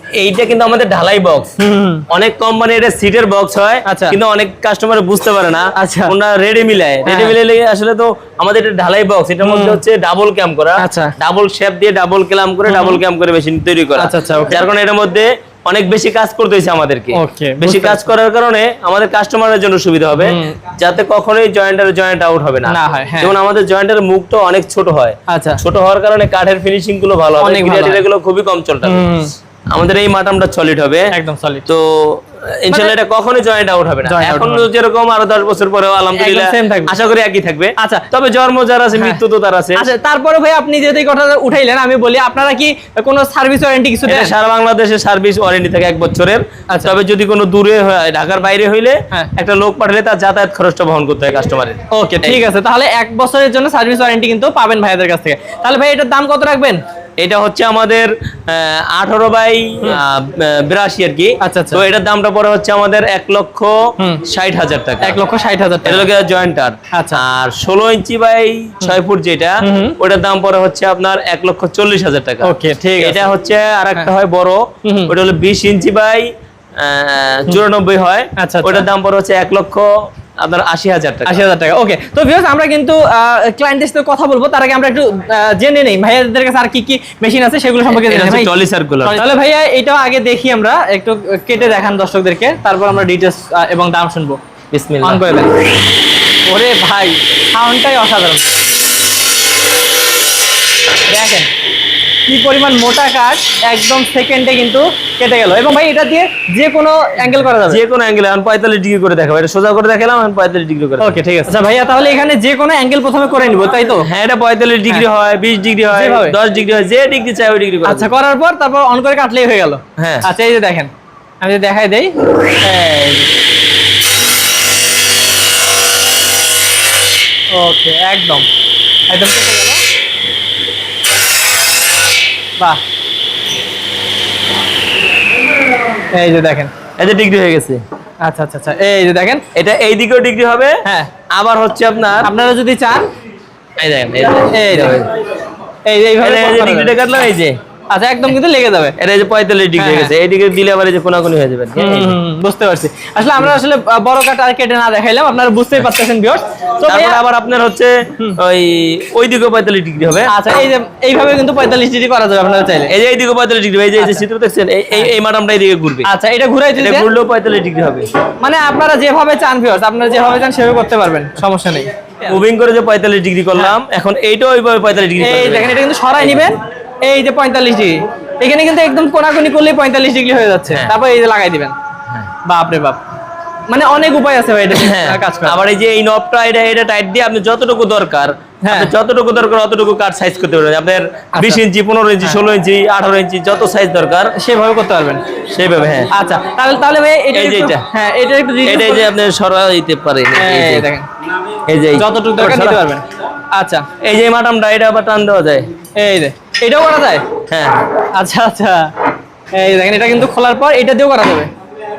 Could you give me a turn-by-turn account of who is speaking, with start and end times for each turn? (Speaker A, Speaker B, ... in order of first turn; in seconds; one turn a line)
Speaker A: 0.2-1.5
Speaker B: 1.6-2.0
Speaker A: 2.1-29.1
Speaker B: 3.9-4.2
Speaker B: 5.8-6.1
Speaker B: 7.0-7.3
Speaker B: 9.4-9.8
Speaker B: 10.8-11.1
Speaker B: 12.7-13.0
Speaker B: 14.0-14.6
Speaker B: 17.1-18.0
Speaker B: 20.2-20.6
Speaker B: 22.7-23.3
Speaker B: 25.3-25.6
Speaker B: 27.4-28.0
Speaker B: 28.8-29.3
Speaker A: 29.7-31.1
Speaker B: 31.1-31.6
Speaker A: 31.7-39.8
Speaker B: 34.0-34.6
Speaker B: 36.2-36.9
Speaker B: 37.8-38.1
Speaker B: 39.8-44.3
Speaker A: 44.1-52.4
Speaker B: 51.9-56.8
Speaker A: 57.2-65.2
Speaker B: 61.4-61.8
Speaker B: 65.0-66.0
Speaker A: 65.8-81.4
Speaker B: 66.9-67.2
Speaker B: 69.6-69.9
Speaker B: 72.4-73.2
Speaker B: 74.8-75.1
Speaker B: 78.4-78.8
Speaker B: 81.3-88.5
Speaker A: 87.9-89.2
Speaker B: 89.0-94.4
Speaker A: 94.7-95.2
Speaker B: 95.0-95.5
Speaker B: 96.5-98.5
Speaker B: 101.1-101.5
Speaker B: 102.3-107.8
Speaker A: 107.7-111.1
Speaker B: 111.0-114.1
Speaker A: 114.0-118.1
Speaker B: 115.9-116.3
Speaker B: 117.8-120.9
Speaker A: 120.0-120.2
Speaker B: 121.4-123.3
Speaker B: 127.5-128.4
Speaker B: 129.1-129.8
Speaker B: 136.1-136.7
Speaker A: 137.0-137.8
Speaker B: 138.2-139.4
Speaker A: 139.5-142.3
Speaker B: 142.2-143.1
Speaker A: 143.8-145.1
Speaker B: 144.5-145.0
Speaker B: 145.8-146.9
Speaker A: 146.2-147.6
Speaker B: 147.9-148.9
Speaker A: 149.0-152.2
Speaker B: 149.8-150.1
Speaker B: 151.8-157.2
Speaker A: 156.9-160.3
Speaker B: 160.3-162.9
Speaker A: 162.9-166.1
Speaker B: 166.1-167.1
Speaker A: 166.8-168.1
Speaker B: 168.4-171.9
Speaker A: 172.2-176.4
Speaker B: 175.2-181.7
Speaker A: 180.7-180.9
Speaker B: 182.4-183.0
Speaker B: 183.7-185.6
Speaker A: 184.8-194.3
Speaker B: 188.6-188.9
Speaker B: 191.3-191.6
Speaker B: 194.4-195.2
Speaker A: 195.5-196.1
Speaker B: 196.1-199.1
Speaker A: 197.3-197.9
Speaker A: 198.6-200.9
Speaker B: 200.3-201.1
Speaker A: 201.7-202.8
Speaker B: 202.0-203.9
Speaker A: 204.0-205.7
Speaker B: 205.9-207.2
Speaker A: 207.5-207.8
Speaker B: 208.1-208.9
Speaker B: 209.5-211.5